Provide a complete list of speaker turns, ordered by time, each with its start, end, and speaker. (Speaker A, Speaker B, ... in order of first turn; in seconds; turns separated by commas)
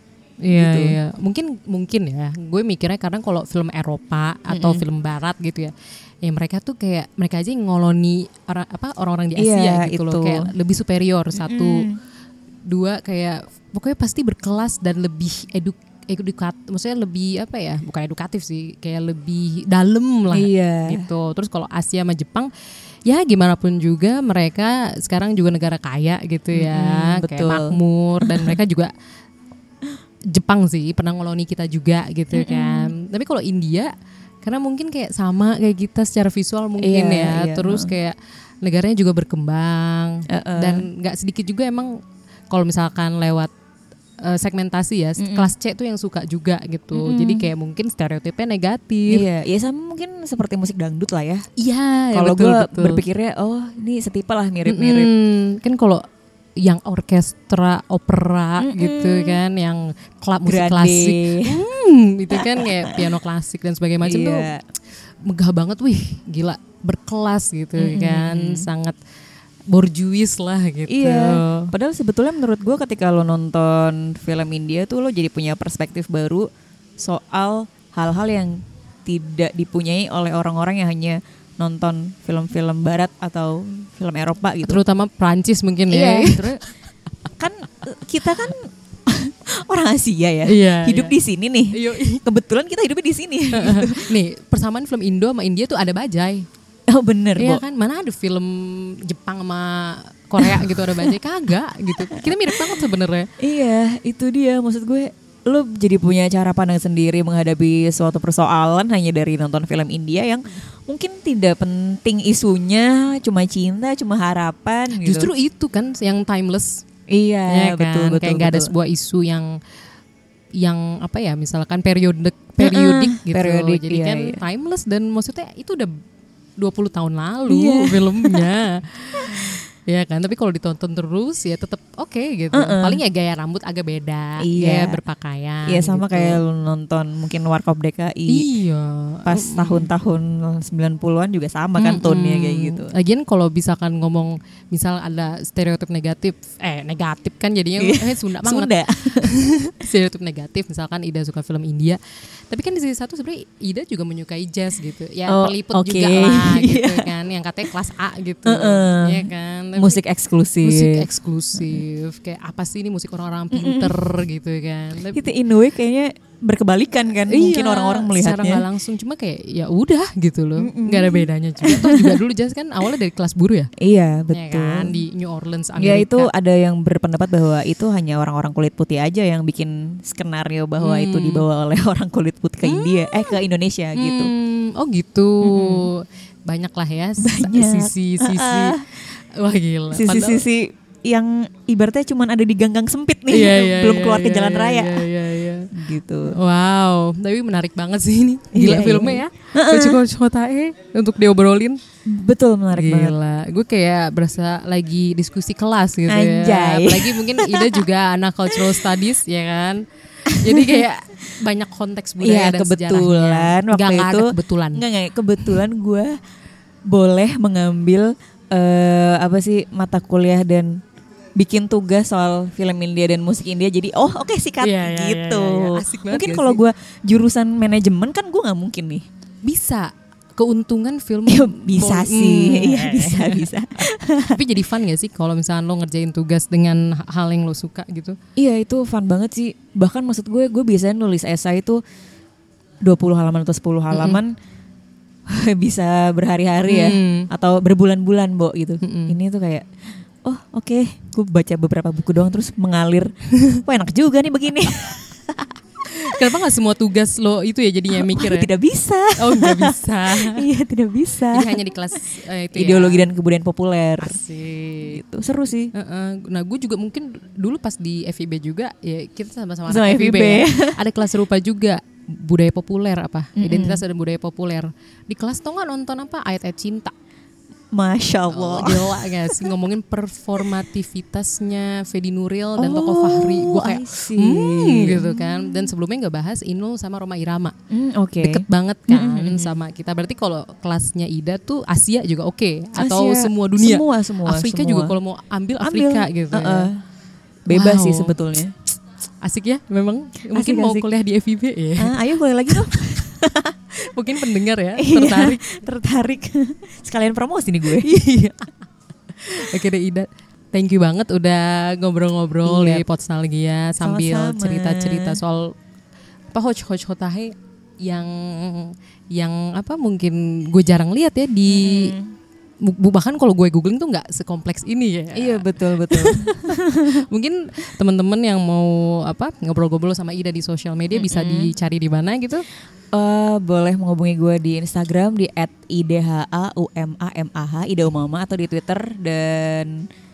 Speaker A: 0.4-11.9, Speaker B: 0.5-1.0, Speaker B: 4.5-4.8, Speaker B: 9.4-10.5, Speaker B: 11.3-12.0, Speaker A: 12.7-22.5, Speaker B: 20.3-21.1, Speaker A: 23.1-28.9, Speaker B: 26.5-28.6, Speaker A: 30.3-33.9, Speaker B: 32.3-32.9, Speaker A: 34.4-42.0, Speaker B: 36.8-37.9, Speaker B: 40.3-40.9, Speaker A: 42.5-43.5, Speaker A: 44.2-49.2, Speaker B: 45.2-45.5, Speaker B: 46.9-47.5, Speaker B: 49.1-51.5, Speaker A: 51.6-53.0, Speaker B: 52.1-55.1, Speaker A: 54.7-56.0, Speaker A: 56.6-64.5, Speaker B: 58.6-59.4, Speaker B: 60.5-61.6, Speaker B: 62.3-63.0, Speaker B: 64.0-64.6, Speaker A: 65.2-69.0, Speaker B: 67.8-68.7, Speaker A: 69.7-71.7, Speaker B: 70.9-76.5, Speaker B: 77.0-84.8, Speaker A: 84.7-86.6, Speaker B: 85.9-86.6, Speaker B: 87.4-94.1, Speaker A: 90.5-91.2, Speaker A: 91.7-92.2, Speaker A: 93.5-96.5, Speaker B: 96.9-97.6, Speaker A: 97.4-103.3, Speaker B: 100.4-101.2, Speaker B: 102.1-102.8, Speaker B: 103.4-115.3, Speaker A: 114.9-116.8, Speaker B: 117.1-118.7, Speaker A: 117.5-119.6, Speaker A: 120.6-125.9, Speaker B: 122.6-124.4, Speaker A: 126.6-136.4, Speaker B: 127.5-128.5, Speaker B: 129.3-129.5, Speaker B: 132.5-133.0, Speaker B: 134.4-135.0, Speaker B: 135.7-138.5, Speaker A: 138.3-139.9, Speaker B: 139.3-142.9, Speaker A: 141.8-160.0, Speaker B: 147.8-149.3, Speaker B: 155.3-157.1, Speaker B: 158.4-161.8, Speaker A: 160.6-165.3, Speaker B: 163.5-164.0, Speaker B: 165.1-168.7, Speaker A: 167.3-173.7, Speaker B: 170.6-172.2, Speaker B: 173.8-175.0, Speaker A: 174.3-176.3, Speaker B: 175.8-184.3, Speaker A: 180.8-181.4, Speaker A: 182.6-183.4, Speaker A: 184.0-190.4, Speaker B: 185.4-185.9, Speaker B: 187.2-188.9, Speaker B: 189.9-195.1, Speaker A: 193.3-195.7, Speaker B: 195.7-196.3, Speaker A: 196.3-201.8, Speaker B: 198.5-200.0, Speaker B: 202.1-203.2, Speaker A: 202.7-214.8, Speaker B: 206.1-207.9, Speaker B: 210.3-210.8, Speaker B: 212.2-216.1, Speaker B: 216.9-220.8, Speaker B: 221.3-229.1, Speaker A: 224.6-226.6, Speaker A: 229.4-238.2, Speaker B: 231.3-234.4, Speaker B: 238.4-241.8, Speaker B: 242.8-244.3, Speaker A: 243.9-244.2, Speaker B: 245.3-249.7, Speaker A: 246.7-247.3, Speaker A: 248.8-249.2, Speaker B: 250.2-253.1, Speaker B: 253.6-255.5, Speaker A: 255.9-258.5, Speaker B: 257.9-261.5, Speaker A: 259.2-260.4, Speaker A: 261.3-263.1, Speaker B: 262.5-264.2, Speaker A: 264.0-265.0, Speaker B: 264.9-265.7, Speaker A: 265.7-276.9, Speaker B: 269.7-270.8, Speaker B: 273.4-273.8, Speaker B: 277.7-279.5, Speaker A: 278.3-287.6, Speaker B: 282.6-285.7, Speaker B: 287.7-289.6, Speaker A: 288.2-296.7, Speaker B: 292.8-294.9, Speaker B: 295.6-296.8, Speaker B: 297.5-298.6, Speaker A: 297.5-298.2, Speaker A: 299.2-302.0, Speaker B: 300.3-300.9, Speaker B: 301.8-303.6, Speaker A: 303.8-305.6, Speaker B: 304.8-307.9, Speaker A: 307.8-308.5, Speaker A: 309.2-315.5, Speaker B: 312.4-312.8, Speaker B: 313.8-315.2, Speaker A: 316.3-322.0, Speaker B: 321.5-322.1, Speaker A: 322.6-332.5, Speaker B: 325.1-327.1, Speaker B: 330.9-331.5, Speaker B: 332.9-339.8